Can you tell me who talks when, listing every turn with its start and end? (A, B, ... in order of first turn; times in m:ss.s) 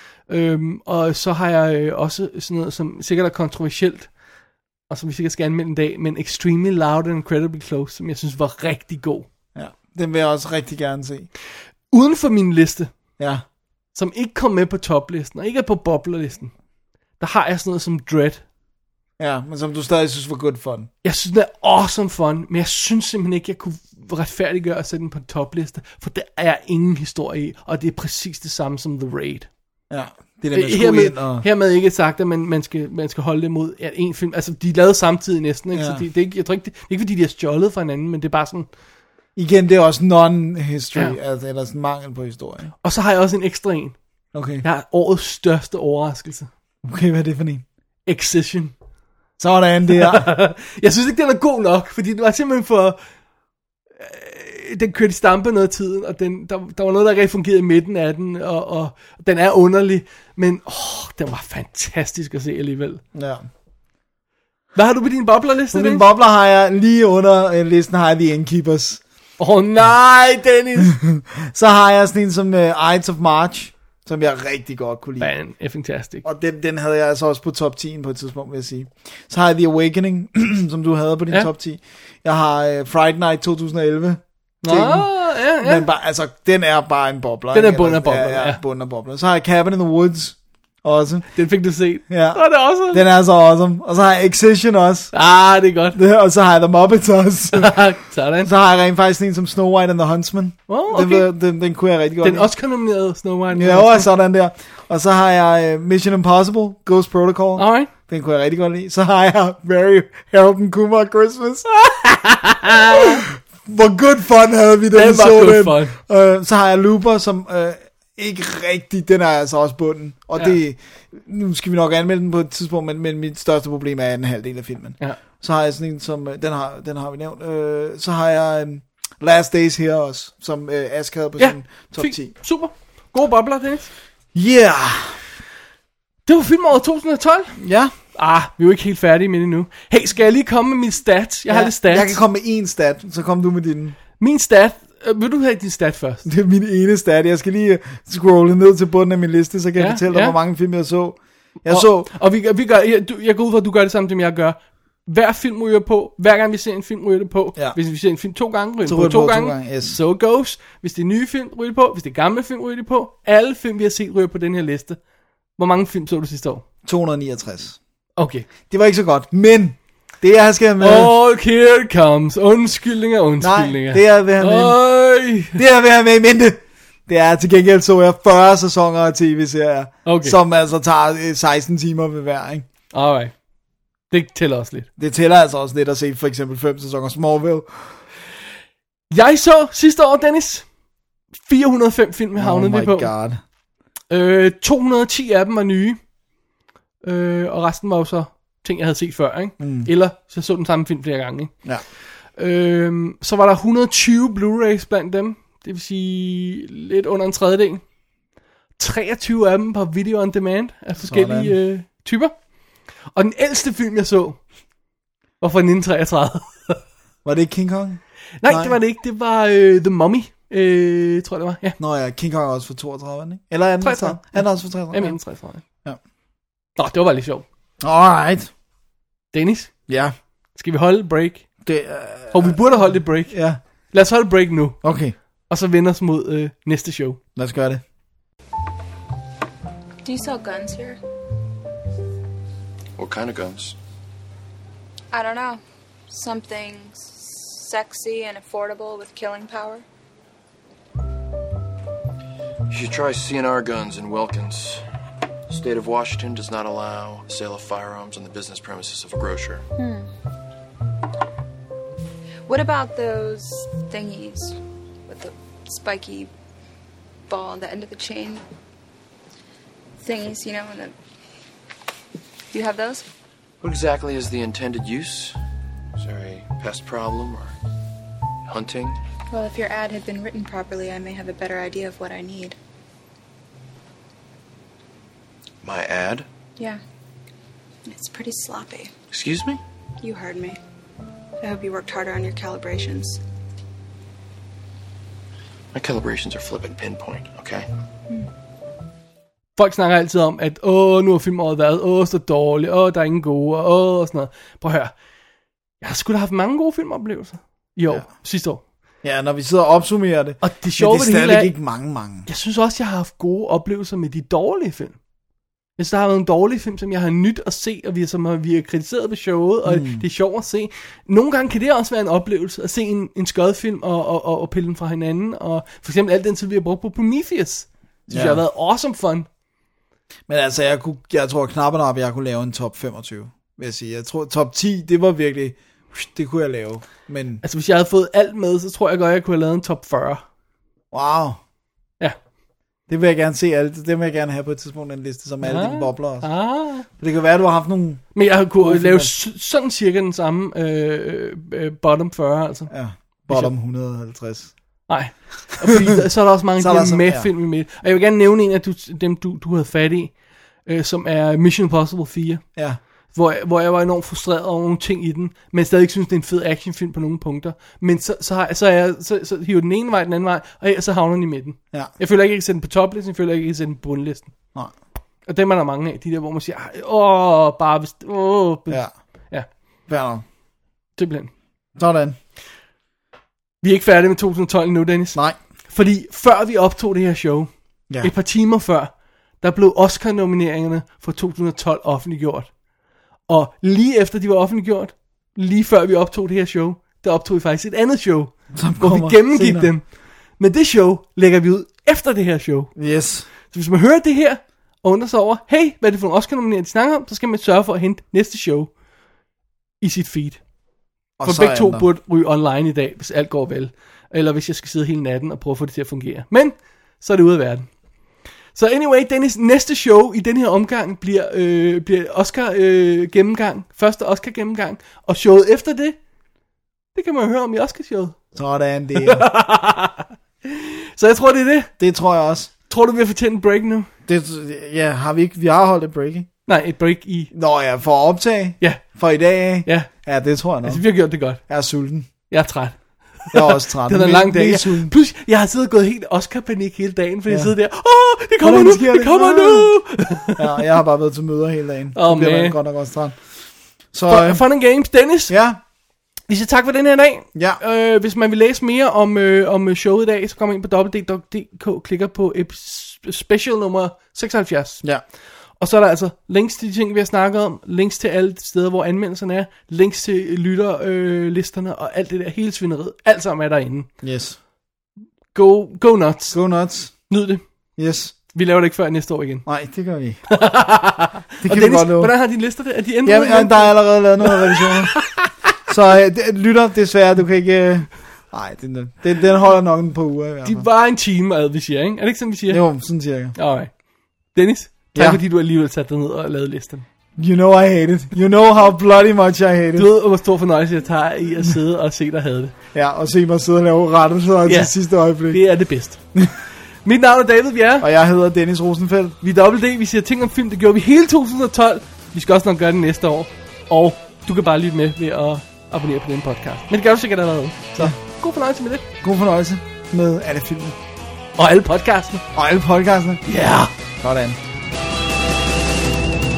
0:00.3-0:04.1 A
0:04.9-0:09.3 A
0:09.5-0:11.3 B
0:11.9-0:12.9 A
0:13.2-0:13.4 B
0:13.9-0:16.5 A
0:17.2-0:18.4 A
0:19.2-0:20.9 B
0:21.0-0:29.5 A
0:29.9-0:31.4 B
0:30.5-0:38.7 A
0:35.7-0:36.0 B
0:39.4-0:42.7 B
0:42.8-0:43.9 A
0:44.3-0:44.6 B
0:44.6-0:46.5 A
0:46.8-0:47.6 B
0:48.1-0:48.7 A
0:49.4-0:50.3 B
0:49.9-0:53.0 A
0:54.0-1:03.0 A
1:03.1-1:03.4 B
1:04.7-1:06.0 A
1:05.7-1:09.0 B
1:09.4-1:11.0 A
1:10.8-1:15.3 B
1:15.2-1:16.2 A
1:16.2-1:31.3 B
1:24.6-1:25.8 A
1:27.5-1:28.6 A
1:31.3-1:33.0 A
1:32.1-1:35.1 B
1:35.1-1:36.0 A
1:35.9-1:37.8 B
1:37.5-1:38.5 A
1:38.4-1:42.5 B
1:40.7-1:41.3 A
1:42.2-1:44.1 A
1:43.5-1:51.6 B
1:47.6-1:47.9 A
1:51.8-1:53.2 A
1:52.7-2:12.3 B
1:54.9-1:55.9 A
2:11.4-2:13.9 A
2:14.3-2:15.2 B
2:16.2-2:17.6 A
2:17.6-2:17.9 B
2:18.1-2:22.2 A
2:21.5-2:24.0 B
2:24.2-2:26.2 A
2:26.2-2:32.1 B
2:29.8-2:30.4 A
2:31.7-2:45.0 A
2:38.8-2:40.0 B
2:45.6-2:46.6 A
2:46.8-2:47.8 B
2:48.2-2:48.5 A
2:48.7-2:51.1 B
2:50.8-2:55.6 A
2:53.4-2:54.8 B
2:55.5-3:02.6 B
3:00.0-3:00.4 A
3:02.9-3:03.3 A
3:04.1-3:04.9 A
3:05.0-3:07.9 B
3:09.1-3:10.6 A
3:11.4-3:13.1 A
3:12.4-3:13.4 B
3:14.1-3:16.0 A
3:17.0-3:21.5 A
3:19.6-3:19.9 B
3:22.4-3:27.8 A
3:28.8-3:32.3 A
3:31.0-3:31.5 B
3:33.1-3:34.4 A
3:35.4-3:36.8 A
3:37.2-3:38.8 B
3:38.4-3:41.8 A
3:41.8-3:45.2 B
3:43.8-3:45.6 A
3:46.8-3:47.4 A
3:47.8-3:48.5 B
3:49.3-3:49.7 A
3:49.9-3:50.1 B
3:50.6-3:51.4 A
3:51.6-3:53.6 B
3:52.3-3:53.3 A
3:53.9-3:54.8 A
3:54.8-3:55.1 B
3:55.5-3:57.2 A
3:57.4-3:57.8 B
4:00.0-4:01.0 C
4:03.0-4:03.7 D
4:05.1-4:09.8 C
4:12.7-4:14.8 D
4:15.5-4:19.6 D
4:19.8-4:20.1 C
4:22.4-4:26.3 C
4:27.3-4:28.4 C
4:30.0-4:30.9 C
4:32.5-4:33.0 C
4:33.6-4:35.4 D
4:36.0-4:37.5 D
4:38.5-4:39.0 D
4:39.3-4:42.6 C
4:45.6-4:46.2 D
4:47.8-4:48.9 C
4:49.1-4:49.6 D
4:50.0-4:50.6 C
4:51.4-4:53.2 C
4:55.7-4:57.6 D
4:59.6-5:04.9 A
5:05.8-5:08.6 A
5:09.0-5:12.3 B
5:10.4-5:11.5 A
5:12.2-5:15.0 A
5:15.8-5:29.3 A
5:19.6-5:20.0 B
5:28.1-5:28.4 B
5:30.3-5:37.4 B
5:37.4-5:40.2 A
5:40.9-5:41.4 B
5:42.9-5:46.3 B
5:45.4-5:46.9 A
5:46.9-5:49.1 B
5:48.1-5:52.7 A
5:52.7-5:54.5 B
5:54.9-6:00.1 A
5:56.6-5:57.3 B
6:00.6-6:02.4 A
6:03.1-6:14.3 A
6:15.3-6:19.5 A
6:19.9-6:20.2 B
6:21.0-6:21.3 A
6:21.8-6:22.2 B
6:23.6-6:25.2 A
6:25.7-6:32.5 A
6:33.3-6:39.8 A
6:38.5-6:39.7 B
6:40.4-6:42.7 A
6:42.8-6:43.3 B
6:43.5-6:48.7 A
6:49.8-6:50.4 A
6:51.2-6:51.8 B
6:51.2-6:57.7 A
6:58.5-7:06.0 A
7:06.9-7:08.2 A
7:08.3-7:09.2 B
7:08.9-7:11.7 A
7:11.8-7:12.5 B
7:12.7-7:13.9 A
7:14.1-7:16.3 B
7:16.5-7:17.3 A
7:17.3-7:20.8 B
7:19.6-7:19.9 A
7:20.6-7:21.4 A
7:21.4-7:22.1 B
7:22.3-7:30.6 A
7:23.3-7:24.9 B
7:27.3-7:27.5 B
7:28.4-7:29.8 B
7:30.3-7:33.2 B
7:31.9-7:32.6 A
7:33.9-7:34.4 B
7:34.1-7:35.3 A
7:35.3-7:35.6 B
7:36.3-7:44.8 A
7:37.3-7:37.6 B
7:45.6-7:53.9 A
7:54.0-7:54.4 B
7:55.3-7:56.4 A
7:56.3-7:56.9 B
7:57.1-7:57.4 A
7:57.8-7:58.1 B
7:58.3-7:59.4 A
7:59.4-8:00.2 B
8:00.3-8:05.3 A
8:01.4-8:02.1 B
8:03.0-8:05.1 B
8:05.7-8:10.6 B
8:10.4-8:12.6 A
8:12.5-8:13.3 B
8:13.4-8:13.7 A
8:14.3-8:16.8 A
8:14.9-8:15.2 B
8:17.2-8:19.9 B
8:19.8-8:22.5 A
8:22.7-8:25.4 B
8:24.4-8:26.0 A
8:26.8-8:27.9 A
8:27.8-8:29.2 B
8:29.2-8:38.8 A
8:39.0-8:40.8 B
8:41.4-8:42.2 A
8:42.3-8:43.2 B
8:43.2-8:43.7 A
8:44.0-8:44.4 B